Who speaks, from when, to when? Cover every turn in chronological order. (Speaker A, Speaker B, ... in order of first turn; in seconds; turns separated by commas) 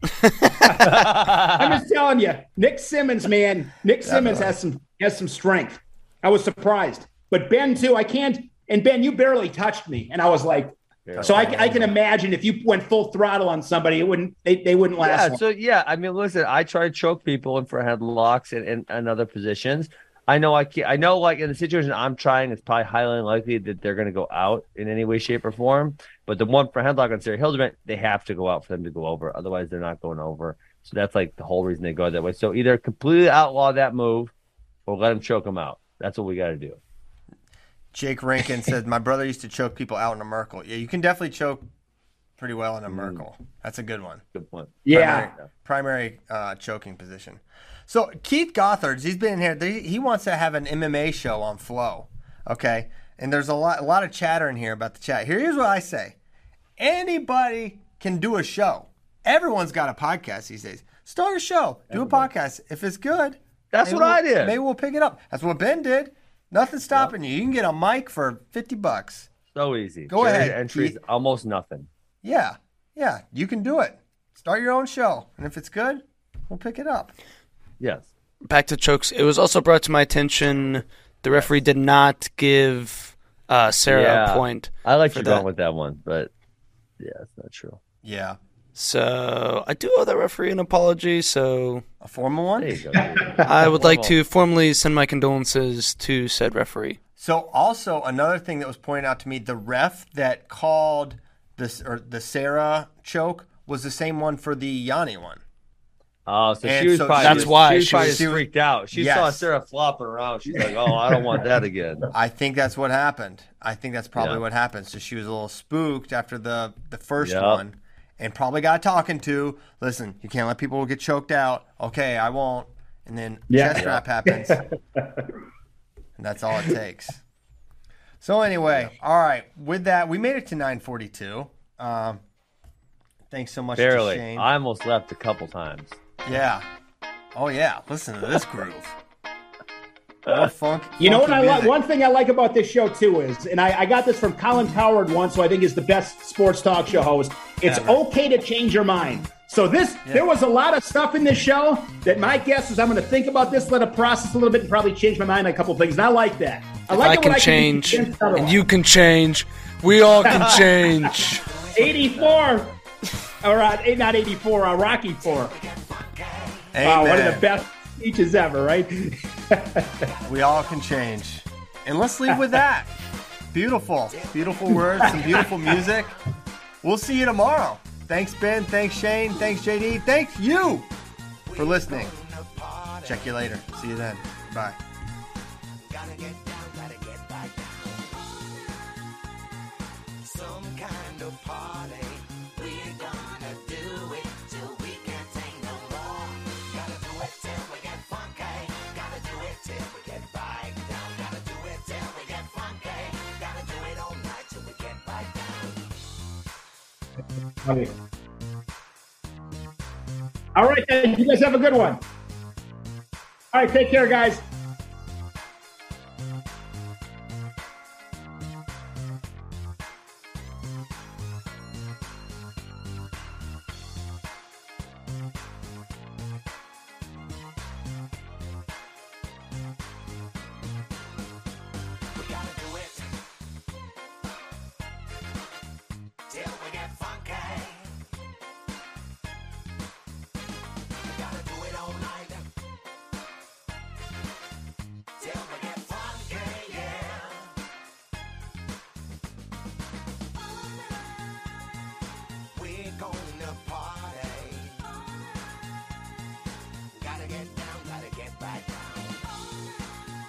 Speaker A: 0.2-0.5, Speaker B: 0.6-15.4, Speaker C: 0.8-1.8, Speaker D: 4.0-4.6, Speaker C: 11.1-11.9, Speaker D: 11.1-11.8, Speaker C: 15.0-34.3, Speaker C: 34.9-36.8, Speaker D: 37.9-41.6, Speaker D: 42.4-44.2, Speaker C: 42.9-43.2, Speaker C: 44.3-45.4, Speaker B: 44.9-45.3, Speaker D: 44.9-56.1, Speaker D: 56.8-69.3, Speaker C: 61.9-62.3, Speaker C: 63.7-64.6, Speaker C: 69.5-71.9, Speaker D: 70.1-71.0, Speaker D: 72.2-77.1, Speaker C: 77.8-78.1, Speaker A: 78.4-85.4, Speaker C: 83.9-86.3, Speaker C: 87.0-87.8, Speaker D: 88.0-88.4, Speaker A: 88.7-91.8, Speaker D: 92.0-92.8, Speaker C: 92.6-94.2, Speaker B: 93.0-93.4, Speaker A: 93.4-97.0, Speaker D: 97.2-105.4, Speaker C: 106.2-112.1, Speaker D: 106.6-109.5, Speaker A: 107.2-108.3, Speaker D: 112.1-124.6, Speaker C: 114.2-114.4, Speaker C: 117.2-117.6, Speaker B: 123.5-125.3, Speaker C: 123.7-124.0, Speaker D: 126.2-127.2, Speaker D: 128.2-132.2, Speaker D: 133.3-134.5, Speaker C: 133.8-136.0, Speaker D: 136.2-136.6, Speaker D: 137.3-138.9, Speaker D: 140.2-141.8, Speaker B: 141.0-158.7, Speaker D: 147.6-148.0, Speaker A: 156.9-161.4, Speaker B: 160.2-161.1, Speaker C: 160.2-160.7, Speaker E: 161.2-162.4, Speaker B: 161.7-162.8, Speaker B: 163.4-165.5, Speaker E: 165.2-166.8, Speaker D: 166.7-167.4, Speaker B: 166.8-170.1, Speaker D: 170.2-172.9, Speaker E: 170.3-170.8, Speaker D: 173.5-176.1, Speaker E: 174.1-176.1, Speaker B: 174.8-175.7, Speaker D: 176.8-180.9, Speaker E: 181.5-183.4, Speaker D: 181.6-182.1, Speaker D: 183.0-184.8, Speaker E: 185.8-188.2, Speaker E: 190.2-205.9, Speaker B: 207.6-207.9, Speaker B: 210.5-212.0, Speaker B: 213.5-214.4, Speaker E: 232.1-233.1, Speaker E: 236.3-237.9, Speaker E: 241.0-242.5, Speaker E: 245.2-247.5, Speaker E: 252.5-254.8, Speaker E: 256.9-259.3